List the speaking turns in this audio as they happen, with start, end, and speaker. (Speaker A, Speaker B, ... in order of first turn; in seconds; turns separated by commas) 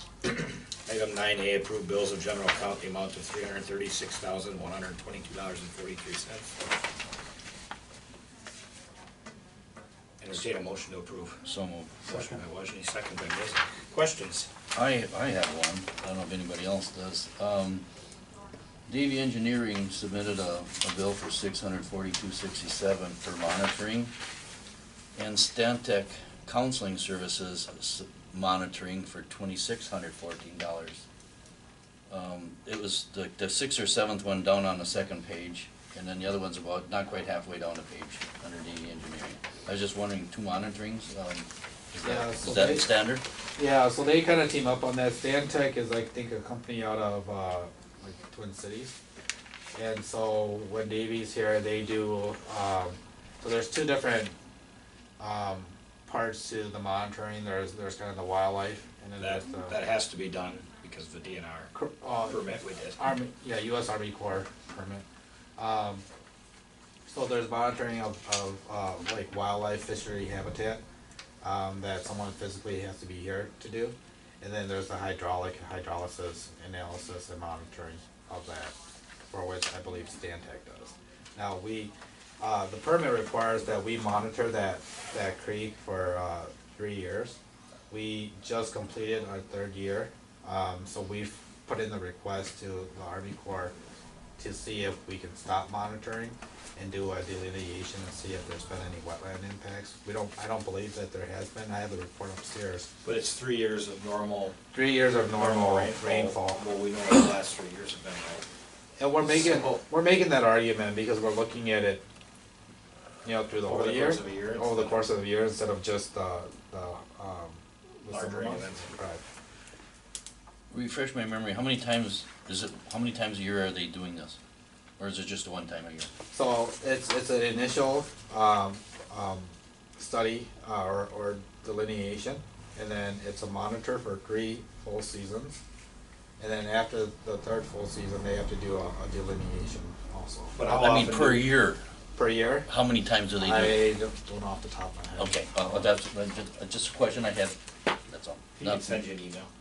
Speaker A: 0.2-6.5, Speaker A: 10.2-11.4, Speaker B: 11.4-12.0, Speaker A: 12.1-14.5, Speaker B: 14.7-17.9, Speaker B: 18.9-24.1, Speaker B: 25.1-31.0, Speaker B: 32.1-43.2, Speaker C: 42.0-42.9, Speaker C: 43.5-49.0, Speaker C: 49.7-54.3, Speaker C: 55.2-59.8, Speaker A: 59.2-61.7, Speaker C: 61.7-65.0, Speaker A: 62.2-63.0, Speaker C: 65.6-66.0, Speaker C: 67.1-70.8, Speaker C: 71.4-78.7, Speaker C: 79.3-87.4, Speaker C: 87.9-93.7, Speaker C: 94.4-102.9, Speaker A: 103.0-104.5, Speaker C: 104.7-106.6, Speaker A: 105.3-108.5, Speaker C: 109.0-112.0, Speaker A: 109.4-109.8, Speaker C: 113.2-119.2, Speaker A: 113.6-115.0, Speaker A: 118.1-119.0, Speaker B: 120.7-124.4, Speaker B: 125.0-126.1, Speaker C: 126.3-135.6, Speaker C: 136.4-140.6, Speaker A: 140.5-141.4, Speaker B: 140.6-141.8, Speaker C: 142.2-142.7, Speaker B: 142.7-143.8, Speaker C: 143.4-145.3, Speaker B: 145.2-149.0, Speaker A: 148.6-149.5